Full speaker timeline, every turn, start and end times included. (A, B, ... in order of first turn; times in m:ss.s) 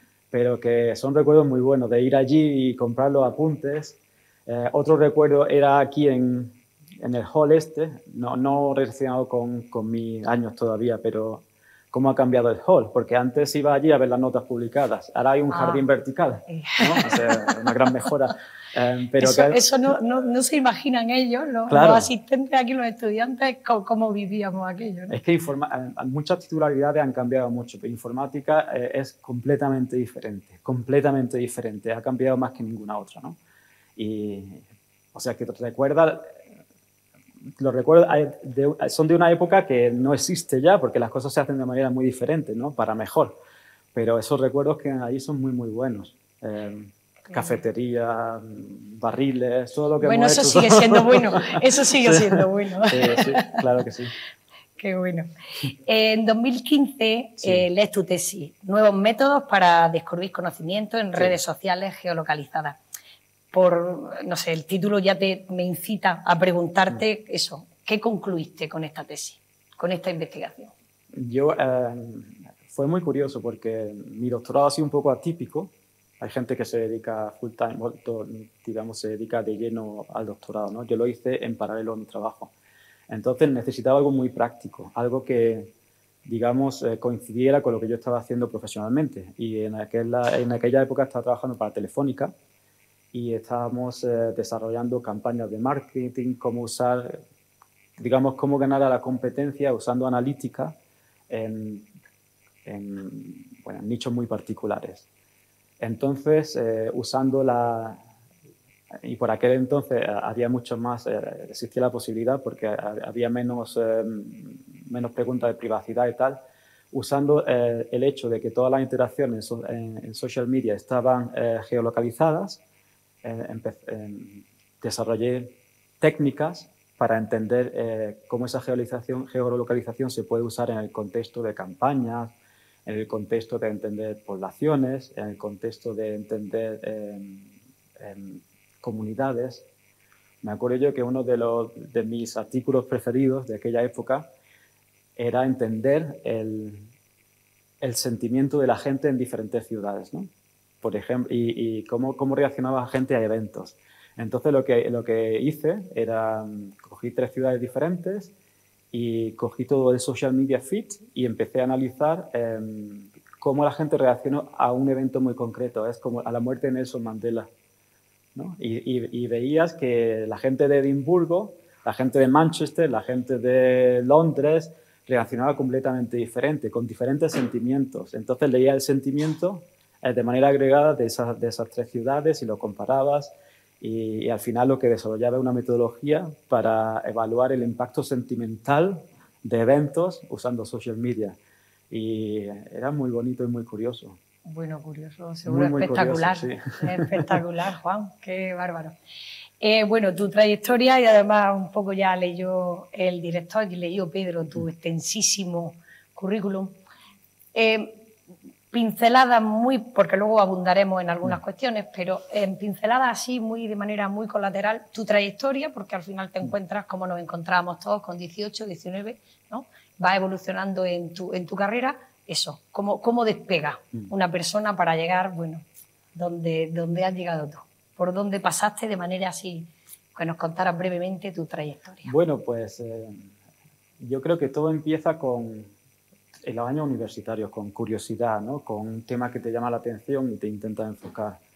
0:00.3-0:19.6 A
0:15.5-0:15.9 B
0:16.5-0:17.9 B
0:19.2-0:25.2 B
0:21.7-0:22.1 A
0:25.1-0:33.4 A
0:34.0-0:36.4 A
0:37.6-0:43.4 A
0:43.9-0:54.1 A
0:50.0-0:53.5 B
0:54.8-1:02.8 B
0:57.4-0:57.6 A
1:03.5-1:10.7 B
1:11.1-1:22.5 A
1:23.1-1:25.7 A
1:26.2-1:32.3 A
1:33.1-1:37.2 A
1:38.0-1:40.8 A
1:41.3-1:41.9 A
1:42.6-1:45.0 A
1:45.8-1:48.0 A
1:48.9-2:02.6 A
2:03.2-2:12.3 A
2:12.8-2:19.6 A
2:20.4-2:24.3 A
2:25.2-2:26.9 A
2:27.8-2:30.3 A
2:30.8-2:38.3 A
2:38.9-2:47.5 A
2:48.3-3:11.4 A
3:11.9-3:14.2 A
3:14.4-3:18.9 B
3:15.4-3:17.4 A
3:19.6-3:26.8 B
3:27.5-3:28.1 B
3:28.7-3:52.1 B
3:52.0-3:53.3 A
3:54.0-3:55.7 A
3:56.4-4:01.4 A